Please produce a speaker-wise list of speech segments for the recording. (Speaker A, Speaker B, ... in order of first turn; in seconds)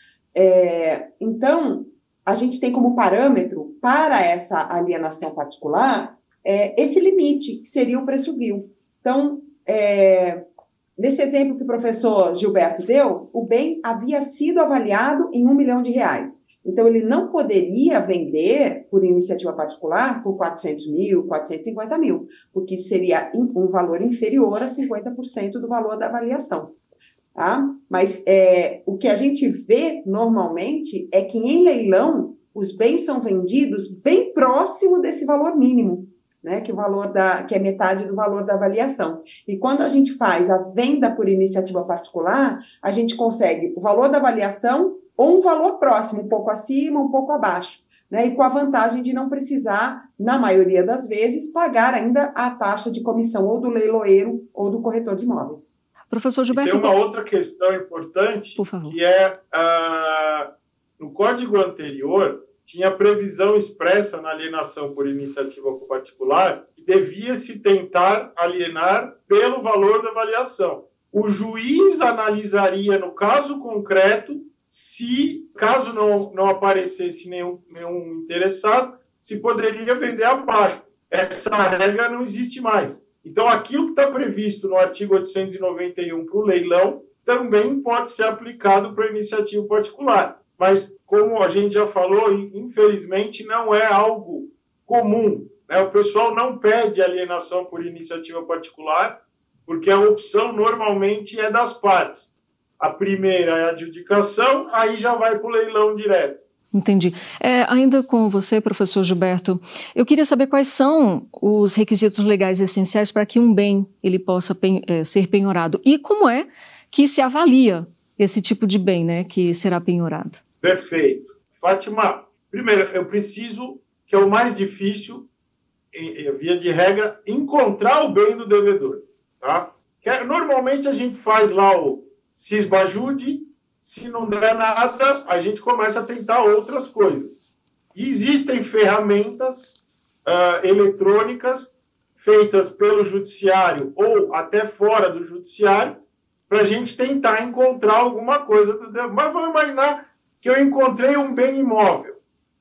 Speaker A: 0.3-10.4, 11.0-26.7, 27.4-55.8
Speaker B: 56.1-57.0, 58.6-59.0, 106.7-120.4
Speaker C: 56.5-60.5, 61.0-99.2, 99.7-106.4, 120.6-125.2, 125.9-137.3, 137.9-146.0, 146.5-152.2